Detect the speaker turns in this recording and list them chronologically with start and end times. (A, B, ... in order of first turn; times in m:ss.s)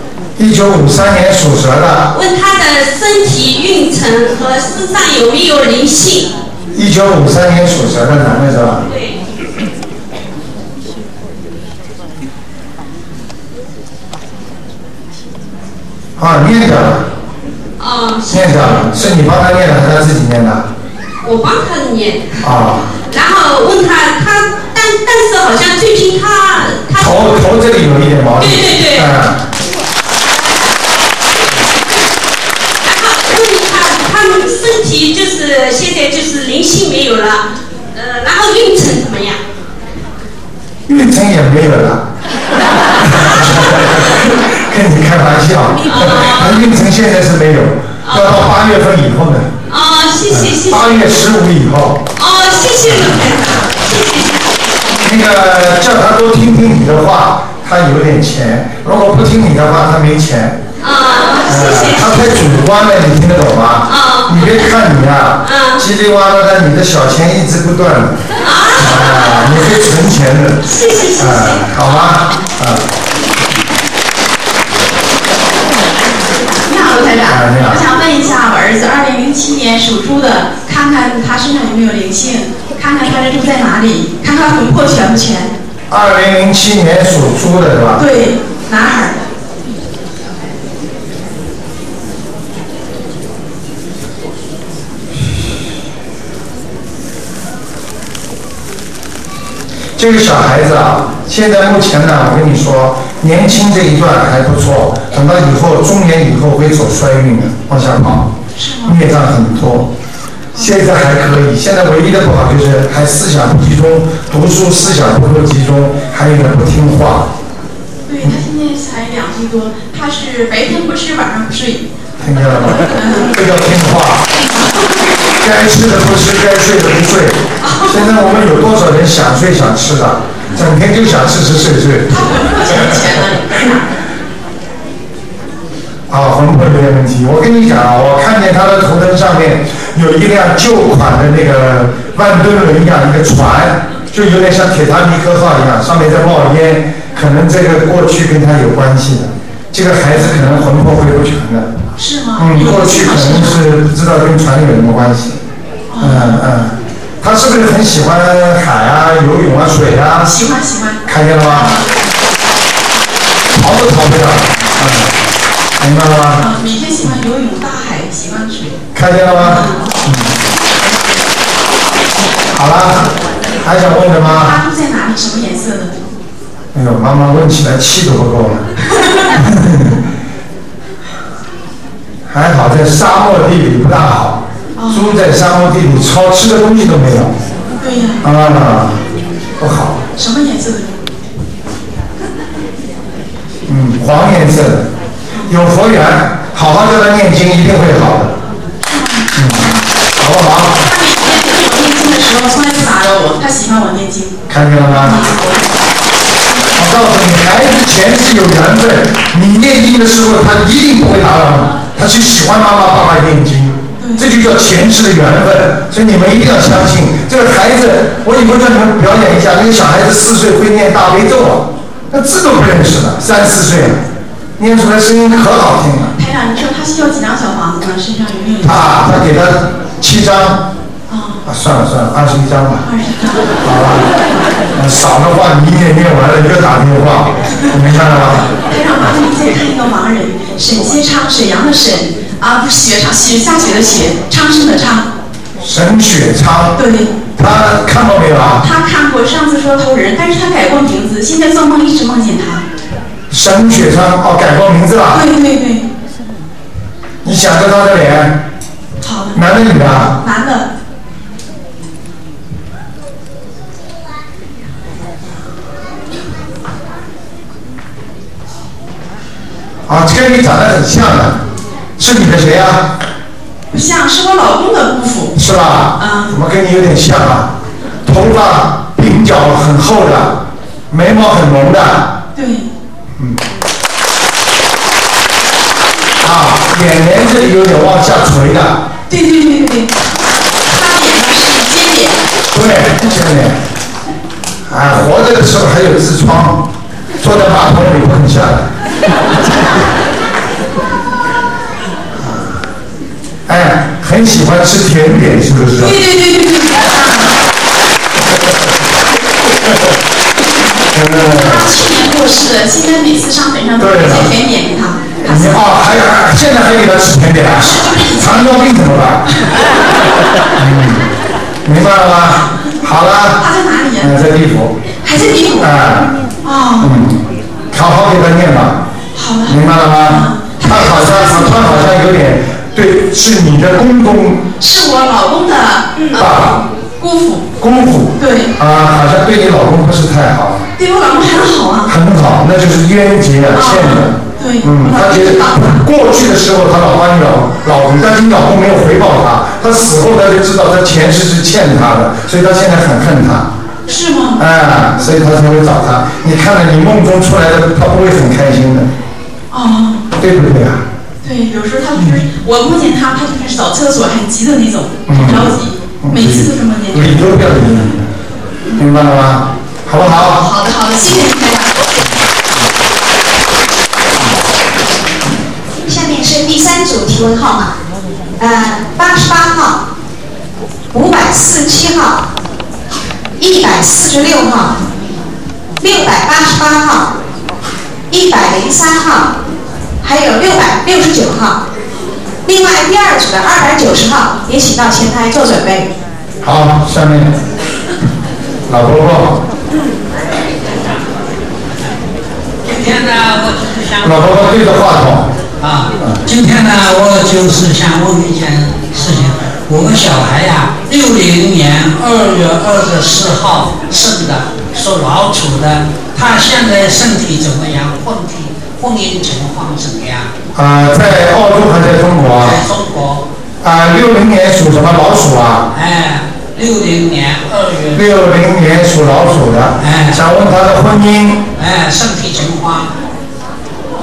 0:00.4-0:02.1 A
0:02.1-0:06.3 B
0:06.7-0:08.8 A
0:08.8-0:09.2 B
0:16.2-0:17.0 A
0:17.8-0:18.7 B
0:18.3-0:20.6 A
0:21.2-0:22.4 B
0:22.4-0:22.9 A
0:23.1-0:27.2 B
0:27.0-0:29.4 A
0:28.4-0:29.1 B
0:32.8-0:39.4 B
0:40.9-0:42.0 A
0:43.0-0:49.5 A
0:45.8-0:46.6 B
0:48.0-0:48.4 B
0:49.7-0:51.0 B
0:50.3-0:52.1 A
0:52.2-0:54.4 B
0:52.8-0:53.3 A
0:55.0-1:00.6 A
1:00.8-1:02.2 B
1:01.5-1:12.9 A
1:03.9-1:04.6 B
1:05.4-1:05.8 B
1:08.4-1:09.6 B
1:10.6-1:12.2 B
1:16.6-1:25.5 C
1:17.3-1:17.8 A
1:25.9-1:28.1 A
1:28.0-1:29.2 C
1:40.0-1:48.3 A
1:48.6-1:49.0 C
1:48.8-1:49.9 A
1:50.6-1:57.3 A
1:50.6-1:50.8 C
1:58.1-2:01.8 C
2:02.2-2:04.3 A
2:02.7-2:03.3 C
2:05.4-2:13.0 A
2:07.6-2:08.2 C
2:12.1-2:13.9 C
2:16.1-2:31.7 A
2:32.0-2:33.6 C
2:32.4-2:35.4 A
2:35.9-2:36.4 C
2:36.0-2:40.3 A
2:40.2-2:41.9 C
2:41.1-2:41.7 A
2:43.5-2:45.2 A
2:45.8-2:46.4 A
2:46.4-2:48.8 C
2:48.9-2:50.4 A
2:49.4-2:49.8 C
2:52.5-2:54.6 A
2:54.2-2:56.0 C
2:56.7-2:58.7 A
2:59.3-3:00.0 A
3:02.3-3:07.4 A
3:04.8-3:05.2 C
3:07.8-3:08.2 C
3:08.2-3:09.0 A
3:09.6-3:10.0 A
3:10.2-3:11.0 C
3:13.7-3:14.9 A
3:15.5-3:18.4 A
3:18.8-3:19.3 C
3:19.3-3:19.7 A
3:20.2-3:20.8 A
3:20.8-3:25.6 C
3:24.5-3:25.3 A
3:26.8-3:44.0 A
3:34.0-3:34.3 C
3:44.6-3:46.1 A
3:46.2-3:49.0 C
3:48.6-3:50.6 A
3:51.1-3:51.4 C
3:51.4-3:52.8 A
3:52.8-3:53.5 C
3:53.6-3:54.1 A
3:54.7-3:58.5 A
3:58.4-4:05.1 C
4:05.6-4:06.8 A
4:06.8-4:07.1 C
4:07.4-4:08.6 A
4:08.6-4:12.6 C
4:13.3-4:15.3 A
4:15.1-4:15.8 C
4:17.2-4:18.4 A
4:19.0-4:19.4 C
4:19.3-4:20.2 A
4:20.2-4:20.7 C
4:29.9-4:31.4 A
4:32.0-4:32.9 A
4:33.7-4:35.3 C
4:35.4-4:37.5 A
4:36.0-4:36.3 C
4:38.0-4:42.1 A
4:42.4-4:42.7 C
4:43.2-4:43.4 A
4:46.2-4:48.8 A
4:49.1-4:50.0 C
4:50.6-4:52.2 C
4:52.5-4:53.6 A
4:54.7-4:56.7 A
4:57.2-4:58.7 A
5:02.2-5:02.7 A
5:03.5-5:06.0 A
5:05.6-5:07.3 C
5:10.9-5:11.7 A
5:11.2-5:15.6 C
5:13.8-5:14.3 A
5:15.2-5:19.3 A
5:17.5-5:18.6 C
5:20.6-5:21.1 A
5:21.6-5:23.4 A
5:23.4-5:24.2 C
5:24.0-5:24.8 A
5:25.0-5:25.7 C
5:25.6-5:26.1 A
5:26.4-5:27.0 C
5:26.8-5:28.8 A
5:29.1-5:31.8 C
5:29.5-5:34.5 A
5:34.6-5:36.3 C
5:36.1-5:36.6 A
5:37.0-5:37.5 C
5:37.6-5:40.7 A
5:38.2-5:38.5 C
5:40.8-5:41.9 C
5:41.9-5:53.5 A
5:43.5-5:45.8 C
5:53.9-5:54.4 C
5:54.4-5:58.9 A
5:59.5-6:00.0 C
6:00.2-6:00.8 A
6:01.2-6:07.6 C
6:02.0-6:02.2 A
6:05.1-6:08.1 A
6:08.8-6:10.5 A
6:10.1-6:11.9 C
6:10.5-6:11.6 D
6:15.8-6:17.7 D
6:18.4-6:19.8 D
6:20.9-6:22.2 D
6:23.4-6:24.8 D
6:25.8-6:27.1 D
6:28.1-6:29.4 D
6:30.0-6:31.6 D
6:32.5-6:35.9 D
6:36.4-6:37.4 A
6:38.7-6:39.4 A
6:42.6-6:44.4 E
6:44.0-6:45.3 A
6:45.6-7:00.3 E
7:00.6-7:02.6 A
7:02.4-7:03.2 E
7:03.6-7:05.7 A
7:05.7-7:08.0 E
7:07.9-7:11.5 A
7:09.8-7:10.2 E
7:11.6-7:12.9 E